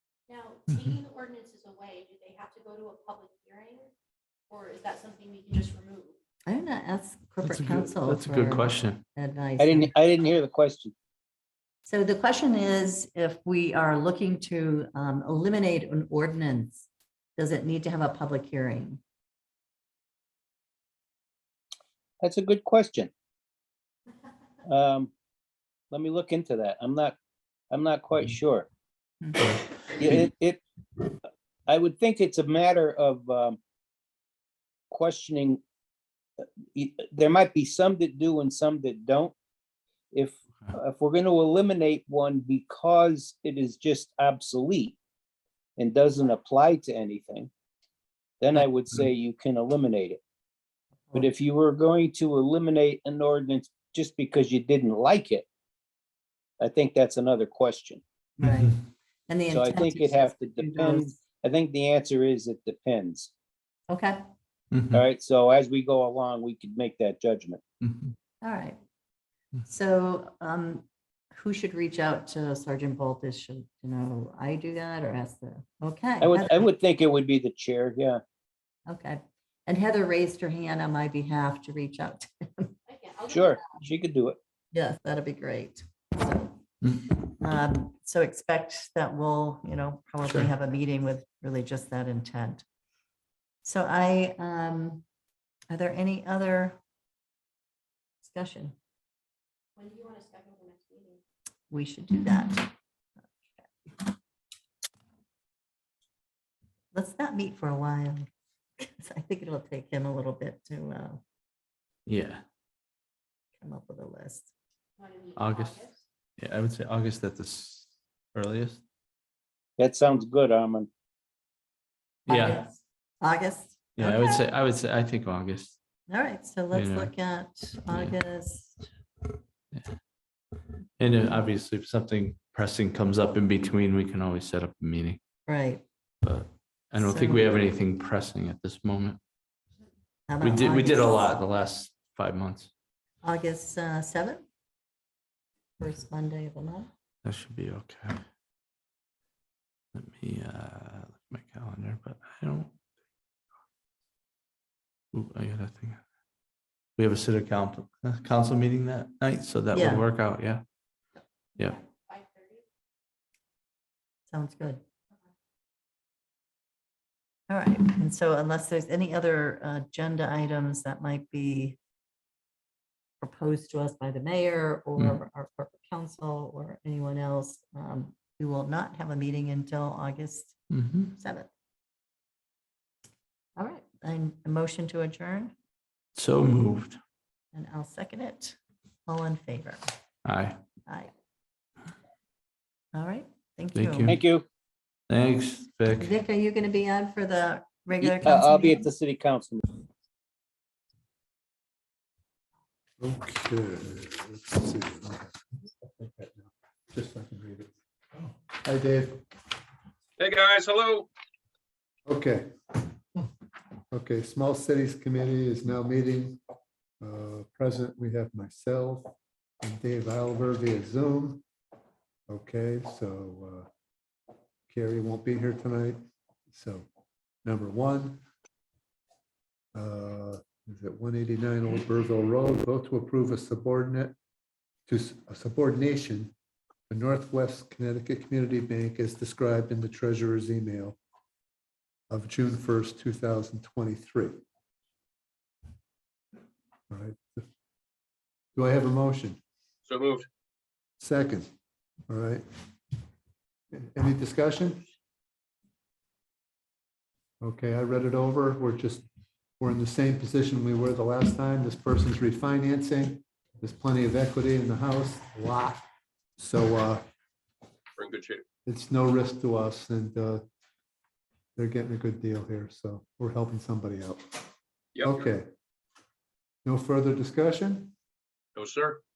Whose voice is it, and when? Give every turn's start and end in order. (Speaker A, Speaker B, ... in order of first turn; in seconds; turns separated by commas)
Speaker A: 0.3-3.9, Speaker B: 0.7-1.0, Speaker A: 4.5-6.1, Speaker C: 6.5-9.9, Speaker B: 7.4-9.0, Speaker D: 9.6-10.9, Speaker C: 11.8-19.0, Speaker D: 22.2-23.1, Speaker D: 24.6-25.1, Speaker D: 25.9-27.1, Speaker D: 27.7-28.7, Speaker D: 29.9-31.1, Speaker D: 31.7-33.6, Speaker D: 34.9-35.6, Speaker D: 36.7-39.3, Speaker D: 40.1-45.0, Speaker D: 45.8-47.5, Speaker D: 48.4-50.2, Speaker D: 51.1-55.5, Speaker D: 56.6-58.0, Speaker C: 58.4-58.8, Speaker B: 58.4-58.7, Speaker C: 59.3-61.2, Speaker D: 59.5-63.3, Speaker C: 63.9-64.2, Speaker B: 64.7-65.0, Speaker D: 64.9-67.6, Speaker B: 67.8-68.1, Speaker C: 68.4-68.8, Speaker C: 69.6-76.7, Speaker D: 76.2-78.2, Speaker C: 78.9-82.7, Speaker A: 82.9-83.6, Speaker D: 83.3-84.4, Speaker C: 84.7-86.6, Speaker B: 86.8-87.1, Speaker C: 87.2-92.6, Speaker C: 93.6-95.0, Speaker C: 95.7-96.8, Speaker C: 98.2-98.7, Speaker A: 99.8-101.2, Speaker C: 101.7-102.7, Speaker C: 103.3-103.7, Speaker C: 106.9-111.2, Speaker B: 112.1-112.4, Speaker C: 113.6-114.5, Speaker A: 115.0-116.0, Speaker B: 115.3-115.8, Speaker B: 116.4-118.8, Speaker D: 119.8-120.9, Speaker B: 122.3-122.6, Speaker C: 122.3-124.3, Speaker B: 124.0-125.8, Speaker C: 126.1-128.8, Speaker B: 126.7-127.1, Speaker B: 127.9-128.2, Speaker B: 129.7-130.0, Speaker B: 131.0-135.2, Speaker C: 135.5-135.8, Speaker B: 136.2-139.2, Speaker C: 137.0-137.5, Speaker C: 140.3-141.3, Speaker B: 140.4-142.7, Speaker C: 143.2-144.4, Speaker C: 145.8-146.9, Speaker B: 147.2-148.2, Speaker B: 149.9-152.7, Speaker B: 155.1-156.0, Speaker B: 157.0-160.6, Speaker C: 159.7-160.0, Speaker A: 161.6-162.6, Speaker C: 164.3-164.8, Speaker C: 167.5-171.8, Speaker C: 173.2-180.6, Speaker B: 180.7-181.1, Speaker C: 181.2-181.5, Speaker C: 183.6-185.5, Speaker B: 186.2-187.0, Speaker C: 187.5-189.8, Speaker B: 190.2-190.6, Speaker C: 192.9-194.2, Speaker B: 193.7-194.2, Speaker D: 194.1-194.4, Speaker B: 195.1-196.1, Speaker C: 195.9-198.9, Speaker D: 198.0-199.8, Speaker E: 203.0-209.2, Speaker F: 210.2-211.1, Speaker E: 212.1-212.5, Speaker E: 213.9-216.4, Speaker E: 217.0-221.4, Speaker E: 222.3-223.7, Speaker E: 224.7-226.0, Speaker E: 226.5-226.8, Speaker E: 227.4-228.2, Speaker E: 229.7-234.1, Speaker E: 234.9-236.3, Speaker E: 236.9-241.0, Speaker E: 242.1-244.3, Speaker E: 246.9-247.5, Speaker E: 248.6-249.4, Speaker F: 249.9-250.2, Speaker E: 251.0-251.5, Speaker E: 252.1-252.4, Speaker E: 253.7-254.9, Speaker E: 257.4-259.0, Speaker E: 259.6-265.8, Speaker E: 266.4-267.0, Speaker F: 268.0-268.4, Speaker E: 268.6-270.4, Speaker E: 271.6-274.4, Speaker E: 275.0-275.5, Speaker E: 276.6-277.9, Speaker F: 278.6-279.0